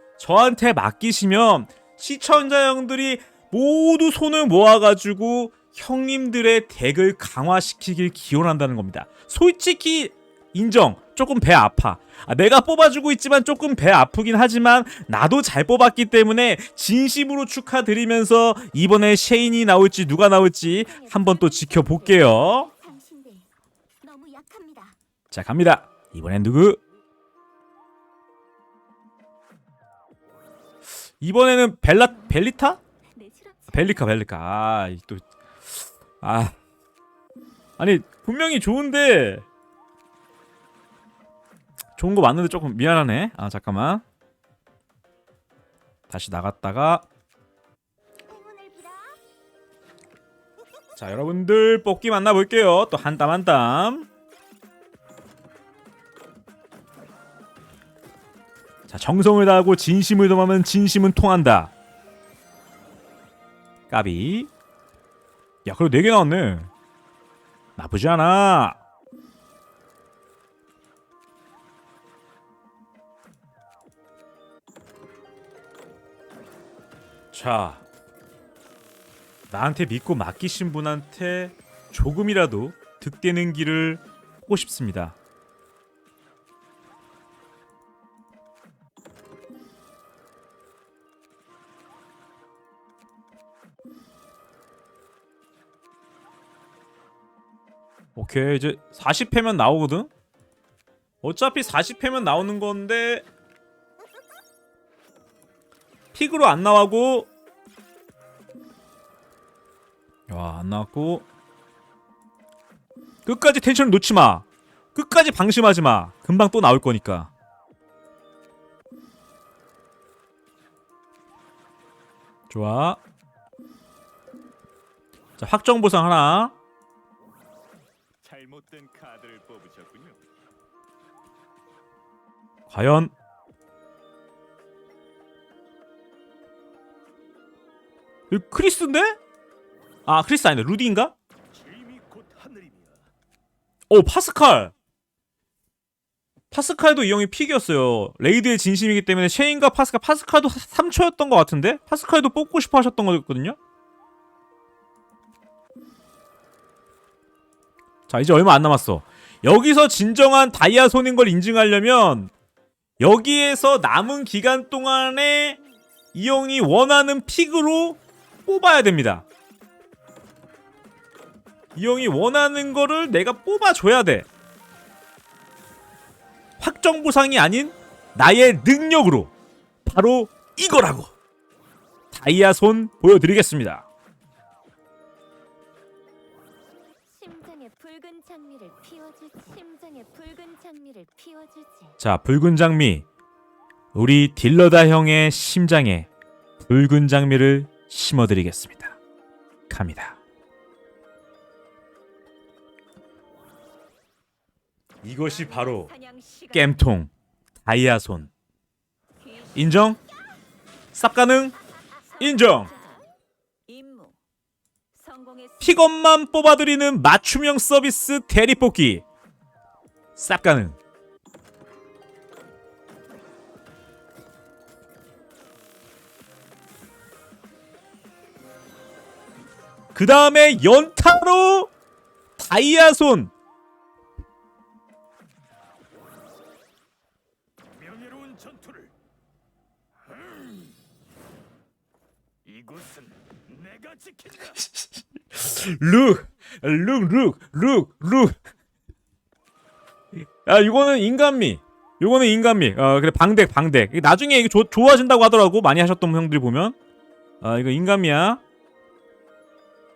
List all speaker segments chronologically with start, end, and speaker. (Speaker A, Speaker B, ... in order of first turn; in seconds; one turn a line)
Speaker A: 0.2-22.7
Speaker B: 20.9-23.5
Speaker C: 21.2-21.8
Speaker B: 24.0-24.9
Speaker A: 25.3-26.8
Speaker A: 31.2-32.8
Speaker B: 33.1-34.1
Speaker A: 33.7-36.6
Speaker A: 37.8-39.4
Speaker A: 42.0-44.0
Speaker A: 46.1-47.0
Speaker B: 48.3-49.2
Speaker A: 51.0-54.1
Speaker A: 58.9-61.7
Speaker A: 63.9-64.5
Speaker A: 65.7-66.7
Speaker A: 67.8-68.8
Speaker A: 77.3-77.8
Speaker A: 79.5-85.2
Speaker A: 98.2-100.1
Speaker A: 101.2-103.2
Speaker A: 106.1-107.3
Speaker A: 110.3-111.2
Speaker A: 113.2-117.3
Speaker A: 122.5-123.0
Speaker A: 125.4-126.5
Speaker D: 128.2-130.2
Speaker A: 132.7-133.1
Speaker A: 138.3-139.2
Speaker A: 140.1-141.1
Speaker D: 141.5-143.1
Speaker A: 143.9-144.7
Speaker A: 146.5-153.6
Speaker A: 158.1-162.3
Speaker A: 163.0-165.6
Speaker A: 166.1-169.2
Speaker A: 171.8-174.3
Speaker A: 176.6-179.3
Speaker A: 179.8-181.1
Speaker A: 182.1-183.8
Speaker C: 187.1-192.0
Speaker A: 192.0-193.1
Speaker A: 193.9-196.1
Speaker A: 196.6-199.0
Speaker A: 199.7-200.2
Speaker A: 205.0-205.9
Speaker C: 205.2-206.8
Speaker A: 206.5-207.1
Speaker A: 207.6-208.3
Speaker C: 209.2-209.8
Speaker A: 209.5-210.0
Speaker A: 210.9-211.6
Speaker C: 212.1-213.1
Speaker A: 212.2-212.7
Speaker C: 213.7-214.2
Speaker C: 214.9-215.9
Speaker A: 215.6-219.0
Speaker A: 220.2-220.8
Speaker A: 229.9-231.7
Speaker A: 232.4-233.3
Speaker D: 237.7-238.9
Speaker D: 240.0-240.8
Speaker D: 242.4-244.6
Speaker A: 245.3-248.3
Speaker A: 250.4-256.8
Speaker A: 257.4-258.4